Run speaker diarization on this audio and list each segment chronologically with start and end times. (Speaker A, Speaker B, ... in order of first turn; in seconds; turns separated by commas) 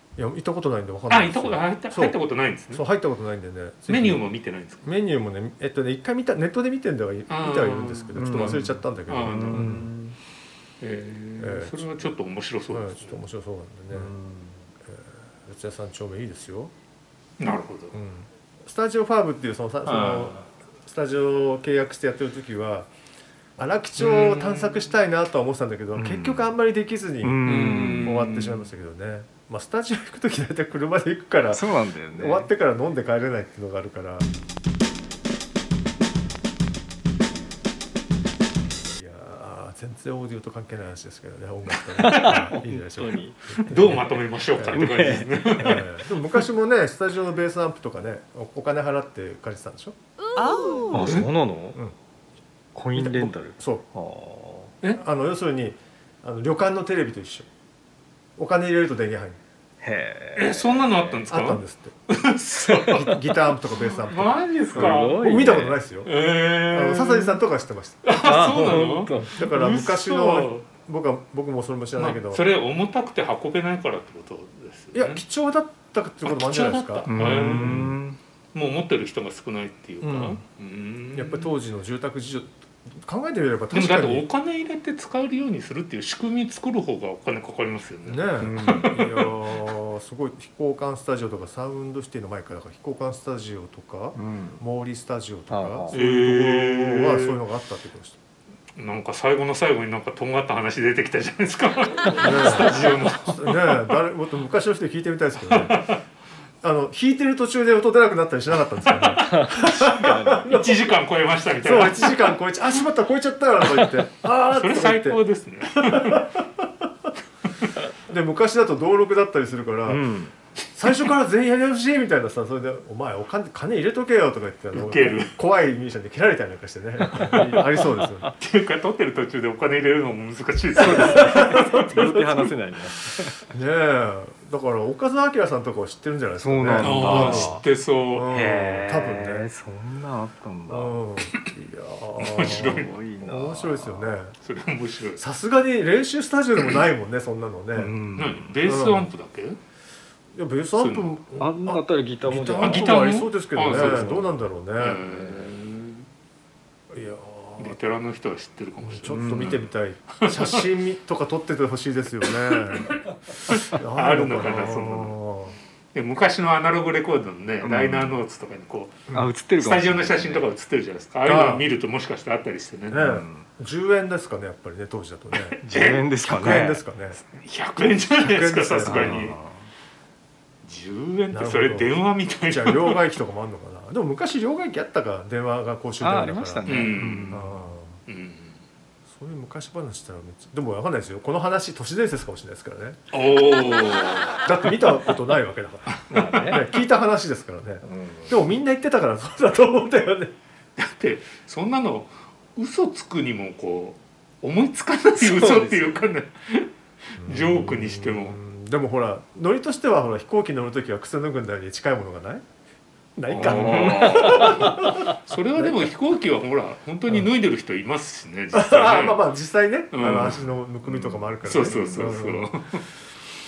Speaker A: 0.2-4.3, Speaker B: 1.1-2.9, Speaker B: 3.9-4.9, Speaker A: 4.8-9.9, Speaker B: 7.3-9.8, Speaker C: 8.2-10.2, Speaker B: 10.8-13.2, Speaker A: 11.4-12.1, Speaker A: 12.7-14.1, Speaker C: 13.9-14.6, Speaker A: 14.9-16.7, Speaker B: 17.4-17.9, Speaker A: 17.9-22.9, Speaker B: 19.9-20.5, Speaker A: 23.6-34.3, Speaker B: 24.0-24.9, Speaker C: 25.9-26.5, Speaker C: 27.2-28.2, Speaker B: 27.4-28.7, Speaker C: 31.5-32.5, Speaker A: 39.0-44.9, Speaker C: 42.0-44.2, Speaker B: 42.1-42.5, Speaker B: 43.6-45.9, Speaker C: 44.7-46.4, Speaker A: 45.5-50.0, Speaker C: 50.9-51.8, Speaker B: 51.0-51.3, Speaker C: 52.8-54.7, Speaker A: 53.0-53.9, Speaker A: 54.9-57.5, Speaker A: 58.4-59.4, Speaker C: 59.8-61.2, Speaker B: 60.4-65.5, Speaker A: 61.3-62.0, Speaker C: 62.6-63.1, Speaker A: 62.9-66.1, Speaker C: 64.7-65.8, Speaker B: 66.0-67.4, Speaker A: 66.7-68.1, Speaker B: 68.0-70.7, Speaker C: 68.2-69.5, Speaker A: 69.2-72.5, Speaker B: 72.0-75.2, Speaker A: 74.9-78.0, Speaker B: 76.2-78.0, Speaker C: 77.1-78.2, Speaker B: 78.5-81.5, Speaker A: 80.0-80.4, Speaker A: 81.1-84.3, Speaker B: 83.7-89.3, Speaker A: 88.0-98.2, Speaker C: 88.4-88.9, Speaker C: 94.2-94.6, Speaker C: 95.5-96.0, Speaker B: 95.9-97.4, Speaker B: 98.8-104.0, Speaker A: 102.2-105.9, Speaker B: 105.4-106.0, Speaker A: 106.6-110.8, Speaker B: 108.9-109.2, Speaker C: 109.2-110.5, Speaker B: 110.1-112.4, Speaker A: 111.6-115.2, Speaker B: 113.7-116.3, Speaker A: 115.9-116.7, Speaker A: 118.1-120.1, Speaker C: 119.9-120.3, Speaker A: 120.8-128.3, Speaker B: 124.7-125.3, Speaker B: 127.2-132.3, Speaker C: 127.3-127.7, Speaker C: 130.8-133.4, Speaker A: 130.8-132.2, Speaker A: 133.5-137.5, Speaker C: 136.4-137.7, Speaker B: 136.8-138.3, Speaker A: 138.1-139.5, Speaker C: 138.3-141.0, Speaker A: 140.7-144.3, Speaker B: 142.2-143.0, Speaker C: 142.3-144.1, Speaker B: 144.4-145.2, Speaker A: 145.2-147.9, Speaker C: 147.8-148.6, Speaker B: 148.2-149.6, Speaker A: 148.7-149.1, Speaker A: 150.3-155.0, Speaker B: 150.8-151.2, Speaker C: 151.4-152.9, Speaker B: 152.5-156.1, Speaker C: 153.6-154.4, Speaker C: 155.1-155.4, Speaker A: 156.9-157.8, Speaker B: 157.6-160.7, Speaker A: 158.8-163.0, Speaker C: 159.1-159.6, Speaker B: 162.3-162.9, Speaker B: 163.5-165.2, Speaker A: 163.7-165.6, Speaker B: 165.9-169.1, Speaker C: 167.6-168.2, Speaker C: 169.1-170.6, Speaker B: 169.6-173.2, Speaker A: 171.2-171.7, Speaker A: 172.9-175.6, Speaker C: 173.0-173.5, Speaker B: 175.3-176.7, Speaker C: 175.6-176.8, Speaker A: 176.3-177.2, Speaker B: 177.2-179.4, Speaker A: 178.1-179.3, Speaker C: 178.8-179.7, Speaker B: 180.6-183.0, Speaker A: 181.3-181.9, Speaker A: 182.5-188.0, Speaker C: 186.0-187.7, Speaker B: 186.7-187.4, Speaker B: 188.1-188.6, Speaker A: 189.1-193.0, Speaker B: 193.1-194.7, Speaker A: 194.4-200.3, Speaker C: 196.1-196.7, Speaker B: 196.1-196.6, Speaker C: 197.8-198.5, Speaker B: 200.8-208.4, Speaker C: 205.2-206.1, Speaker A: 207.2-212.4, Speaker A: 213.2-215.8, Speaker B: 213.3-219.2, Speaker C: 213.4-215.1, Speaker A: 218.5-222.5, Speaker B: 219.9-222.9